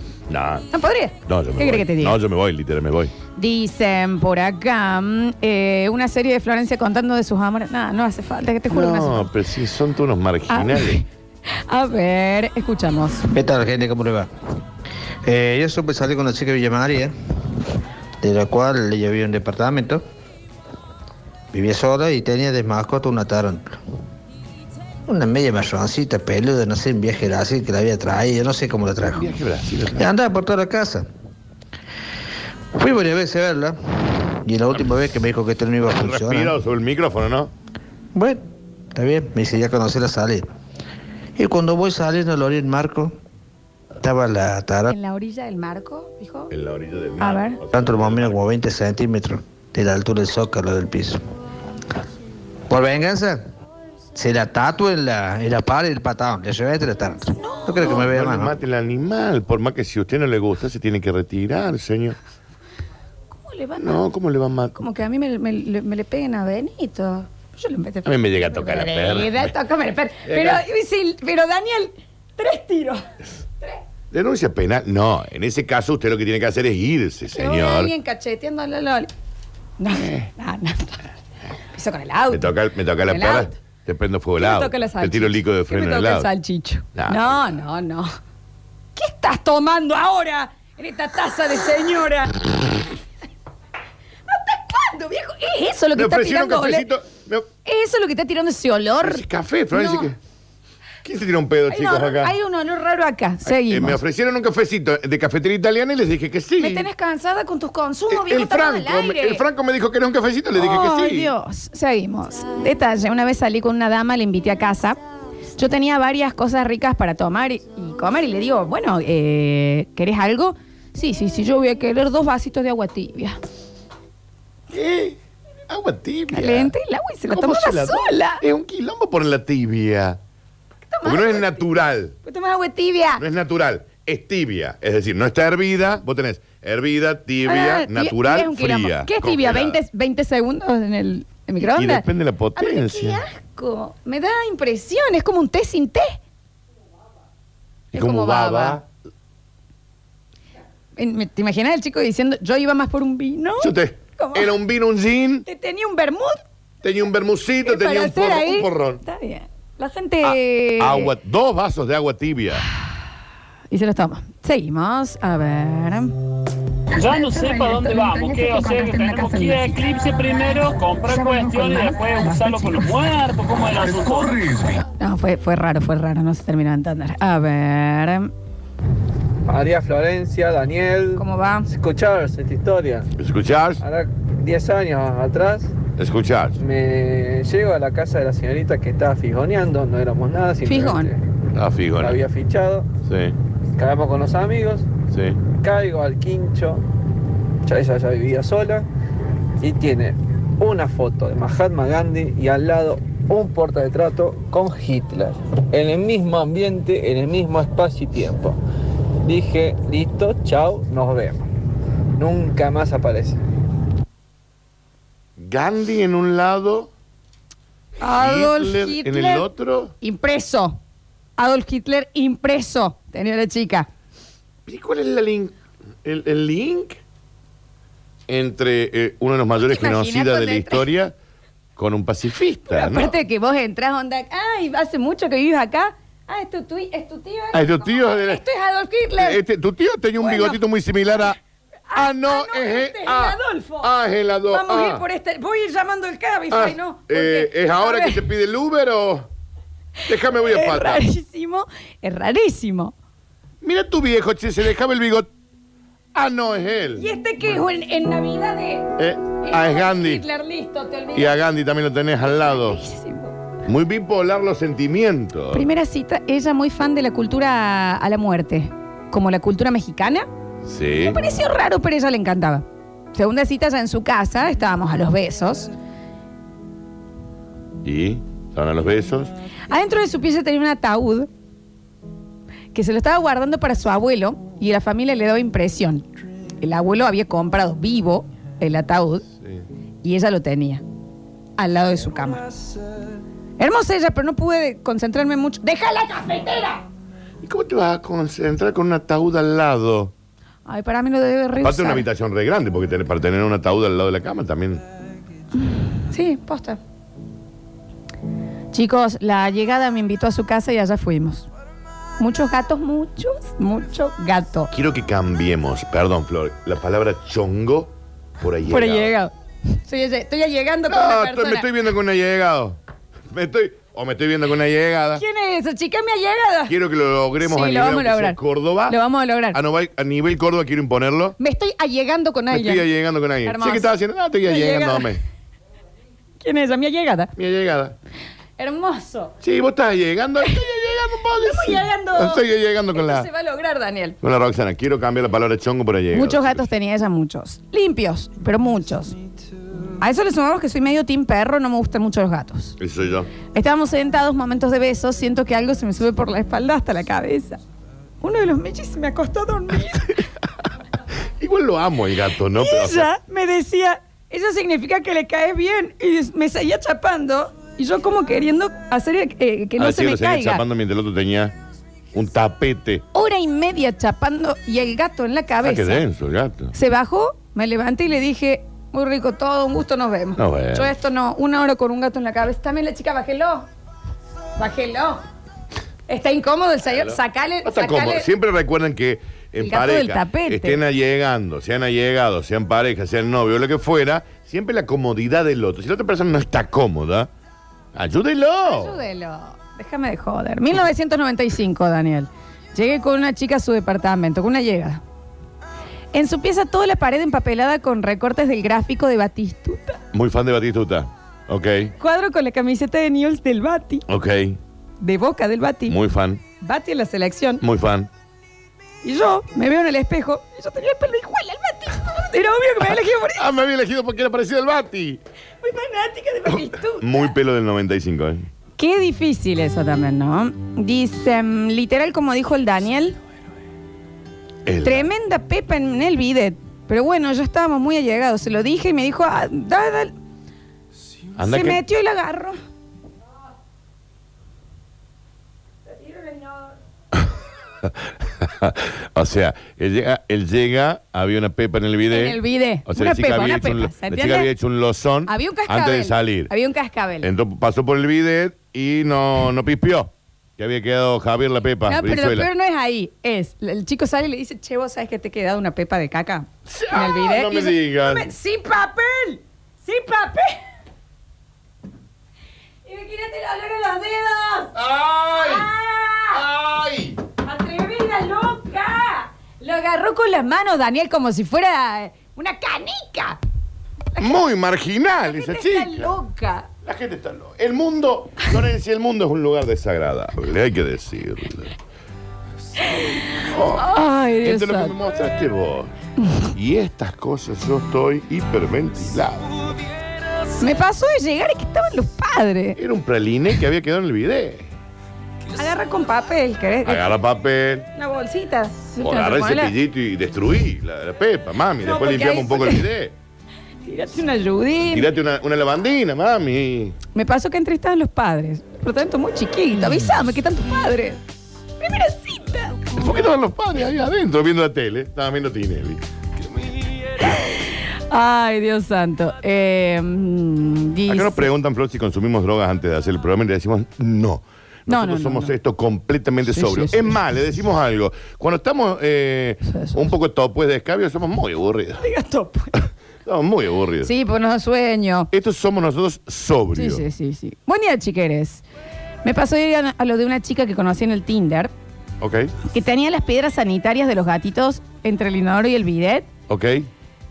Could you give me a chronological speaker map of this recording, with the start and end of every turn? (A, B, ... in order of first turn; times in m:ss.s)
0:00.3-0:00.6 A
0:00.7-0:02.2 B
0:01.2-0:03.1 A
0:03.4-0:09.3 B
0:08.7-0:11.0 A
0:10.5-0:13.2 B
0:13.3-0:14.3 C
0:15.2-0:17.1 C
0:18.2-0:20.0 C
0:21.5-0:23.8 C
0:25.1-0:29.3 C
0:29.1-0:30.1 A
0:29.9-0:31.1 C
0:32.7-0:36.5 C
0:35.8-0:37.5 A
0:38.1-0:38.4 C
0:38.9-0:40.5 C
0:41.4-0:43.2 C
0:44.0-0:44.9 C
0:44.9-0:46.5 B
0:46.5-0:48.4 A
0:47.2-0:47.6 B
0:47.7-0:51.2 C
0:52.7-0:53.4 C
0:54.1-0:58.5 C
0:57.4-0:58.0 B
0:57.8-1:02.2 A
1:03.3-1:04.0 B
1:03.8-1:04.8 A
1:04.8-1:13.0 B
1:08.0-1:09.5 A
1:10.3-1:10.6 A
1:14.1-1:17.9 A
1:17.3-1:19.1 B
1:19.8-1:21.0 B
1:19.9-1:20.3 A
1:21.7-1:22.5 B
1:22.3-1:26.3 A
1:23.1-1:23.5 B
1:24.4-1:28.1 B
1:27.0-1:27.5 A
1:29.0-1:32.4 B
1:34.3-1:36.9 B
1:35.9-1:37.5 A
1:37.6-1:40.1 B
1:39.0-1:40.2 A
1:41.0-1:42.3 A
1:41.7-1:44.0 B
1:43.5-1:46.9 A
1:46.6-1:49.4 B
1:48.1-1:51.3 A
1:50.5-1:55.0 B
1:55.6-2:03.4 B
2:04.7-2:05.2 A
2:05.7-2:06.7 A
2:06.3-2:08.4 B
2:07.3-2:10.2 A
2:10.9-2:11.6 B
2:11.0-2:12.1 A
2:12.2-2:13.2 B
2:13.2-2:19.8 A
2:17.4-2:22.0 B
2:21.6-2:23.2 A
2:22.6-2:26.2 B
2:27.9-2:28.8 B
2:27.9-2:28.8 A
2:31.0-2:34.5 B
2:33.6-2:35.4 A
2:35.4-2:36.4 B
2:36.8-2:39.0 A
2:37.6-2:41.1 B
2:40.2-2:42.6 A
2:43.7-2:46.1 B
2:46.9-2:54.7 D
2:47.4-2:49.6 B
2:55.0-2:58.3 B
2:59.4-3:03.1 E
3:01.2-3:01.7 B
3:03.2-3:03.8 A
3:03.8-3:05.8 E
3:06.0-3:06.6 A
3:06.6-3:11.2 E
3:10.6-3:11.1 B
3:11.5-3:12.2 A
3:12.0-3:12.9 E
3:13.1-3:13.3 A
3:13.8-3:14.9 E
3:15.1-3:15.4 A
3:15.5-3:16.8 E
3:17.6-3:18.9 E
3:19.6-3:28.6 E
3:29.2-3:31.4 E
3:32.2-3:33.4 E
3:35.4-3:36.9 A
3:38.0-3:39.5 B
3:38.0-3:39.9 A
3:40.0-3:40.8 B
3:41.4-3:43.9 B
3:44.7-3:47.0 A
3:48.3-3:51.1 A
3:49.6-3:50.8 B
3:51.8-3:53.1 A
3:52.7-3:59.4 B
3:57.5-3:58.4 A
3:59.2-4:01.4 A
4:00.2-4:00.6 B
4:01.9-4:03.9 B
4:01.9-4:05.0 A
4:04.5-4:08.2 B
4:06.5-4:09.3 A
4:10.0-4:11.0 A
4:10.0-4:12.9 B
4:13.6-4:15.3 A
4:16.1-4:17.6 A
4:17.0-4:21.4 B
4:19.0-4:20.2 A
4:21.1-4:22.8 A
4:22.4-4:23.4 B
4:23.6-4:25.7 A
4:25.5-4:30.3 B
4:30.6-4:31.2 A
4:31.0-4:35.7 B
4:37.8-4:39.3 A
4:39.7-4:41.3 B
4:42.7-4:46.0 B
4:46.6-4:49.2 B
4:50.0-4:50.8 B
4:51.6-4:52.4 B
4:53.6-4:56.8 B
4:57.4-5:00.1 A
5:00.7-5:02.0 B
5:01.6-5:04.8 A
5:06.1-5:06.8 B
5:08.7-5:11.5 B
5:12.2-5:14.7 B
5:14.7-5:19.1 A
5:18.7-5:21.7 B
5:20.9-5:22.8 A
5:23.3-5:25.2 A
5:25.2-5:26.7 B
5:26.7-5:29.0 A
5:27.4-5:29.6 B
5:29.5-5:31.4 A
5:31.4-5:32.9 B
5:32.5-5:35.2 A
5:33.4-5:33.9 B
5:34.4-5:35.1 B
5:36.4-5:37.3 B
5:37.4-5:38.0 A
5:38.6-5:39.3 B
5:39.4-5:43.3 A
5:41.4-5:44.2 B
5:44.2-5:46.6 A
5:46.1-5:49.2 B
5:50.0-5:52.8 B
5:52.8-5:53.3 A
5:53.5-5:57.6 B
5:58.2-6:00.2 B
6:01.4-6:03.1 A
6:02.6-6:10.6 B
6:09.8-6:11.5 A
6:12.1-6:13.0 A
6:13.1-6:16.0 B
6:15.6-6:16.7 A
6:16.7-6:23.7 B
6:20.4-6:20.9 A
6:24.6-6:25.2 B
6:26.1-6:28.3 B
6:26.9-6:37.3 A
6:29.6-6:30.8 B
6:37.9-6:39.0 A
6:38.6-6:45.0 B
6:46.1-6:50.0 B
6:50.1-6:51.9 A
6:52.0-6:54.0 B
6:54.1-6:54.6 A
6:55.0-6:56.0 B
6:55.9-6:56.4 A
6:56.6-6:57.6 B
6:57.6-6:58.1 A
6:59.0-7:03.4 B
7:03.3-7:05.2 A
7:05.6-7:07.3 B
7:06.5-7:08.5 A
7:08.8-7:13.2 B
7:14.6-7:15.1 A
7:14.8-7:20.1 B
7:21.4-7:21.8 A
7:21.4-7:22.6 B
7:25.9-7:26.7 B
7:27.8-7:36.5 A
7:32.1-7:34.5 B
7:35.3-7:37.3 B
7:37.2-7:42.5 A
7:41.9-7:50.6 B
7:46.7-7:48.3 A
7:52.8-7:54.7 B
7:54.7-7:55.7 A
7:55.3-7:56.4 B
7:56.3-7:57.2 A
7:57.4-8:03.4 B
8:04.2-8:06.1 A
8:05.2-8:06.7 B
8:06.8-8:11.8 A
8:12.8-8:14.9 B
8:13.4-8:13.9 A
8:14.4-8:15.9 A
8:16.5-8:19.5 A
8:20.6-8:22.8 B
8:22.8-8:24.7 A
8:25.5-8:27.1 B
8:26.8-8:27.9 A
8:27.9-8:29.7 B
8:29.0-8:33.1 A
8:31.8-8:32.8 B
8:33.8-8:35.1 B
8:34.9-8:37.0 A
8:37.1-8:41.2 B
8:41.8-8:43.0 B
8:43.0-8:46.0 A
8:47.2-8:51.5 B
8:51.1-9:02.0 A
8:54.9-8:55.5 B
8:56.5-8:57.1 B
8:59.7-9:00.1 B
9:02.0-9:02.9 B
9:03.2-9:04.1 A
9:04.0-9:05.3 B
9:05.3-9:07.0 A
9:06.7-9:08.6 B
9:09.2-9:11.7 B
9:12.2-9:12.5 A
9:12.7-9:16.3 B
9:16.5-9:16.9 A